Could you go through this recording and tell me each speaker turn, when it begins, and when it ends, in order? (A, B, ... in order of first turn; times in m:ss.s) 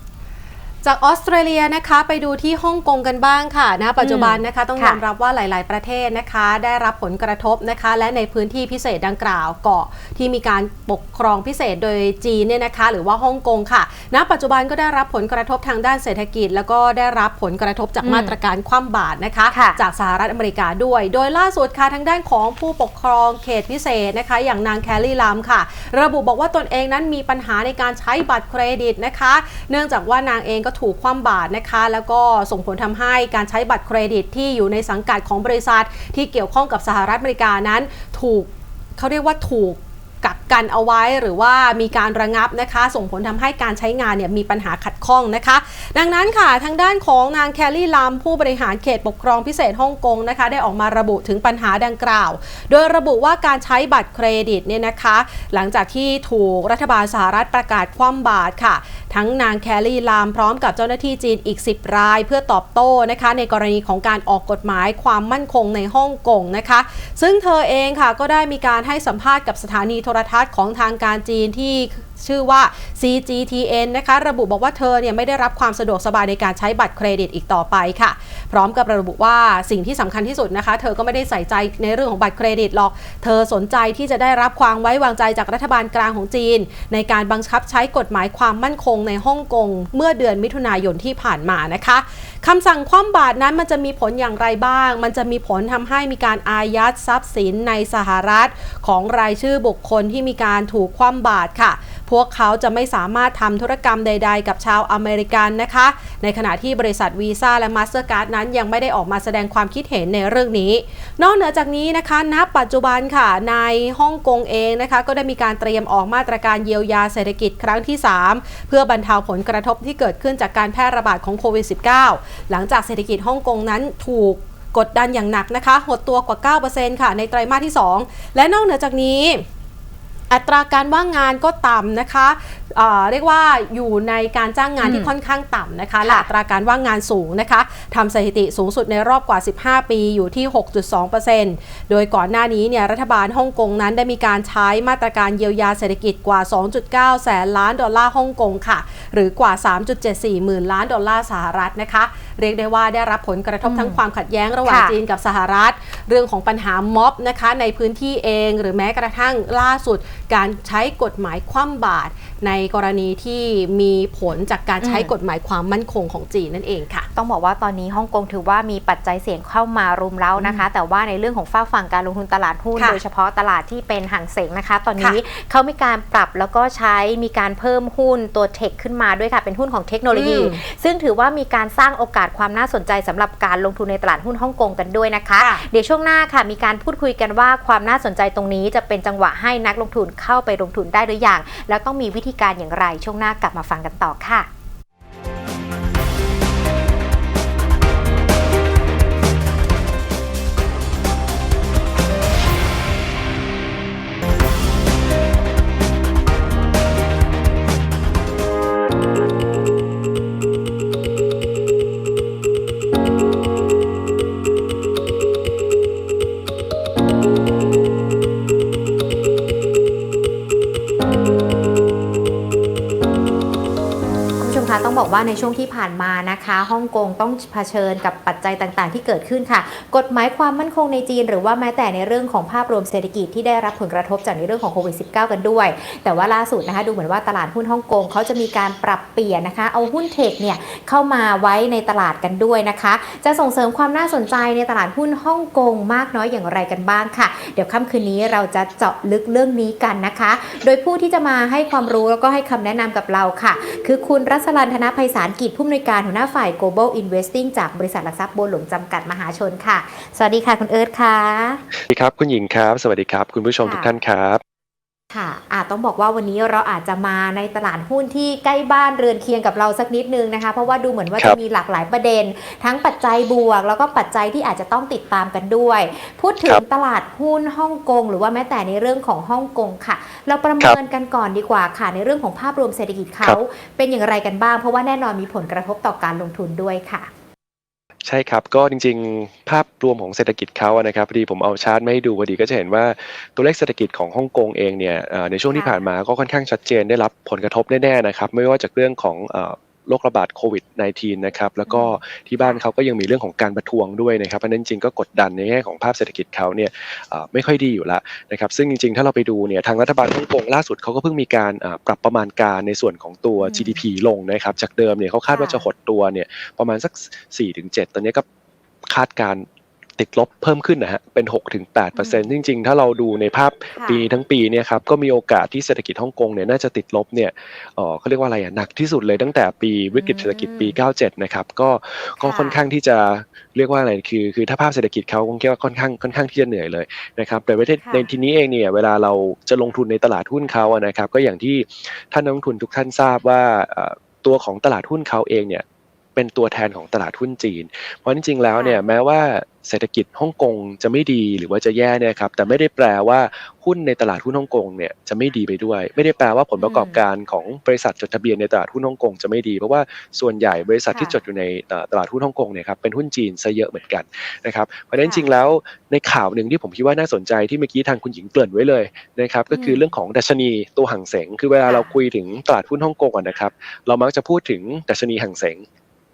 0:00.8-2:09.5 A
0:04.0-0:05.0 B
0:18.0-0:18.4 B
0:19.5-0:19.8 B
2:10.3-2:47.1 A
2:14.8-2:15.1 B
2:16.0-2:16.3 B
2:33.6-2:34.0 B
2:34.7-2:35.0 B
2:44.8-2:45.1 B
2:47.2-3:14.5 B
2:50.4-2:50.6 A
3:00.1-3:00.6 A
3:05.4-3:05.6 A
3:44.4-4:21.6 B
4:21.9-4:24.4 C
4:23.6-4:23.9 B
4:25.1-4:47.1 B
4:48.0-5:18.2 C
4:55.5-4:55.8 B
5:01.7-5:02.6 B
5:13.4-5:13.8 B
5:15.3-5:15.6 B
5:18.9-5:19.5 C
5:20.0-5:45.6 C
5:22.0-5:22.3 B
5:23.8-5:24.1 B
5:29.9-5:30.8 B
5:32.2-5:32.6 B
5:37.8-5:38.1 B
5:46.2-6:15.6 C
5:48.6-5:48.8 B
5:56.6-5:57.0 B
6:00.9-6:01.2 B
6:05.0-6:05.3 B
6:09.5-6:09.9 B
6:11.6-6:11.9 B